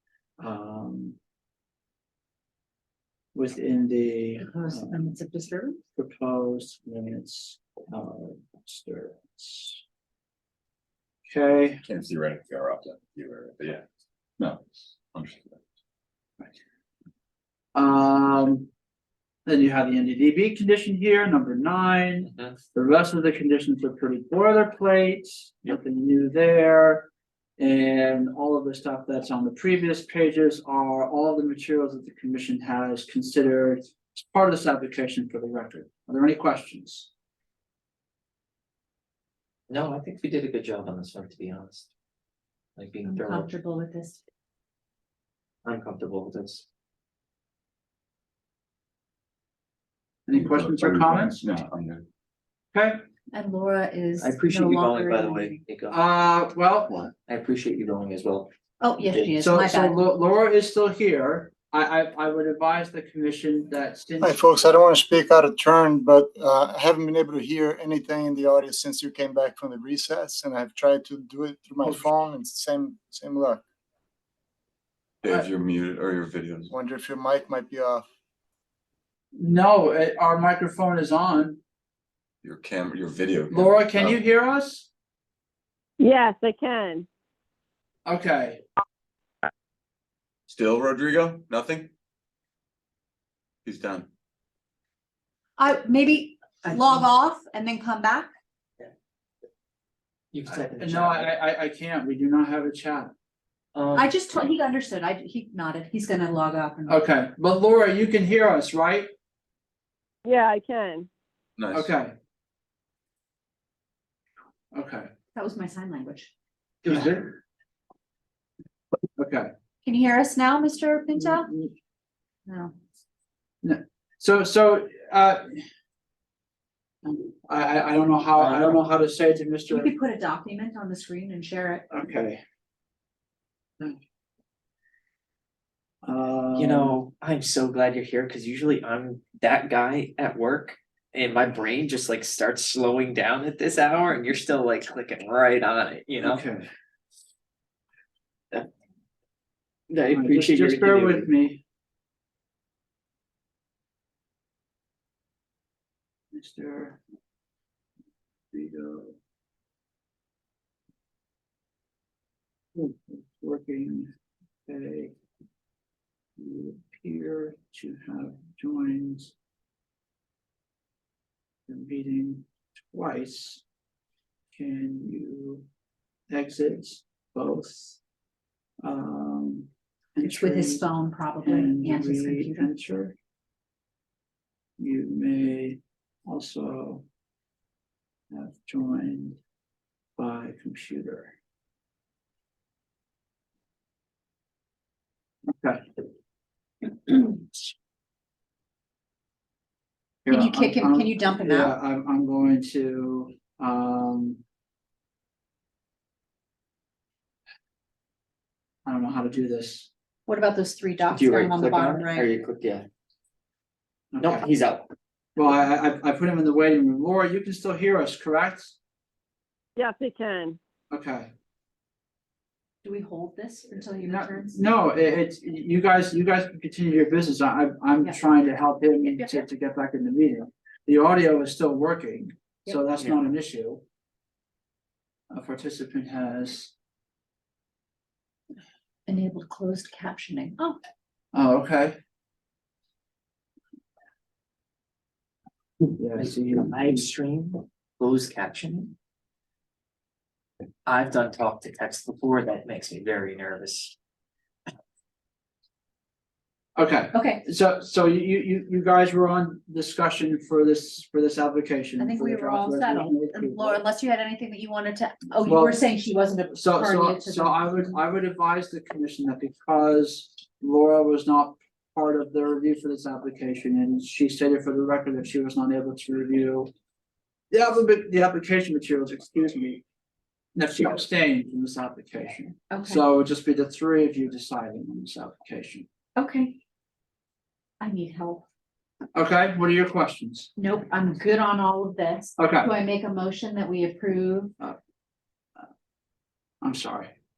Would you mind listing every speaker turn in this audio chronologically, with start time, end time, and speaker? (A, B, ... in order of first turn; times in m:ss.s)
0:00.4-0:01.2 A
0:03.4-0:05.1 A
0:04.4-0:05.8 B
0:06.0-0:09.8 A
0:11.3-0:11.8 A
0:11.8-0:13.8 C
0:14.4-0:15.6 C
0:17.8-0:18.7 A
0:19.5-0:37.1 A
0:39.7-0:41.9 D
0:42.8-0:43.5 D
0:43.0-0:44.2 B
0:45.6-0:46.6 D
0:50.3-0:51.5 A
0:50.4-0:52.0 C
0:52.7-0:53.0 A
0:53.3-0:55.6 B
0:54.2-0:56.1 D
0:55.9-0:57.0 A
0:56.9-0:58.5 D
0:58.8-1:00.0 B
0:59.0-0:59.4 D
0:59.4-1:04.6 A
1:04.2-1:13.6 E
1:15.2-1:16.7 C
1:16.7-1:18.0 E
1:19.4-1:21.6 A
1:22.4-1:24.2 C
1:23.5-1:24.9 A
1:26.0-1:27.1 F
1:28.1-1:28.6 A
1:30.5-1:31.9 C
1:33.6-1:34.1 C
1:35.6-1:38.3 B
1:36.7-1:37.0 D
1:40.3-1:41.3 D
1:40.5-1:43.1 A
1:43.8-1:44.5 D
1:43.9-1:47.0 B
1:46.9-1:49.1 A
1:50.2-1:51.1 F
1:51.6-1:51.9 C
1:51.7-1:52.2 A
1:54.7-1:55.1 A
1:55.4-1:56.3 B
1:56.8-1:57.4 A
1:59.2-1:59.5 A
1:59.8-2:01.5 B
2:01.2-2:01.7 A
2:02.5-2:02.7 B
2:03.6-2:05.6 A
2:07.0-2:09.9 A
2:08.4-2:08.8 D
2:09.7-2:11.9 B
2:11.9-2:12.4 A
2:16.0-2:17.0 A
2:16.5-2:26.4 D
2:26.2-2:26.7 A
2:29.9-2:31.3 D
2:30.1-2:31.6 A
2:36.3-2:37.0 A
2:38.5-2:39.2 A
2:42.8-2:44.1 A
2:44.7-2:45.2 A
2:46.4-2:49.3 A
2:51.7-2:53.6 A
2:54.5-2:55.6 A
2:56.3-2:58.0 A
2:58.8-3:00.9 A
3:00.2-3:02.7 B
3:01.4-3:03.2 A
3:04.8-3:07.0 A
3:08.3-3:09.4 A
3:10.2-3:11.4 A
3:15.5-3:15.9 A
3:17.1-3:17.4 A
3:20.2-3:24.4 A
3:20.3-3:21.7 B
3:28.9-3:29.9 A
3:30.3-3:32.3 B
3:31.1-3:32.9 D
3:34.1-3:34.4 A
3:34.2-3:34.9 D
3:35.4-3:38.8 A
3:39.8-3:40.6 F
3:40.9-3:41.3 A
3:42.8-3:44.7 B
3:44.0-3:53.8 A
3:49.0-3:49.5 B
3:55.3-3:56.7 A
3:59.1-4:00.8 B
4:01.3-4:02.0 A
4:06.0-4:07.0 A
4:06.2-4:08.9 D
4:10.9-4:14.0 D
4:16.8-4:23.8 A
4:17.1-4:17.4 B
4:22.0-4:28.0 B
4:25.5-4:25.8 A
4:26.5-4:36.7 A
4:37.5-4:39.8 A
4:40.6-4:45.9 A
4:42.7-4:43.0 B
4:46.2-4:46.6 B
4:47.8-4:48.4 B
4:49.2-4:50.5 A
4:50.6-4:54.5 B
4:52.4-4:52.7 A
4:56.6-4:57.1 A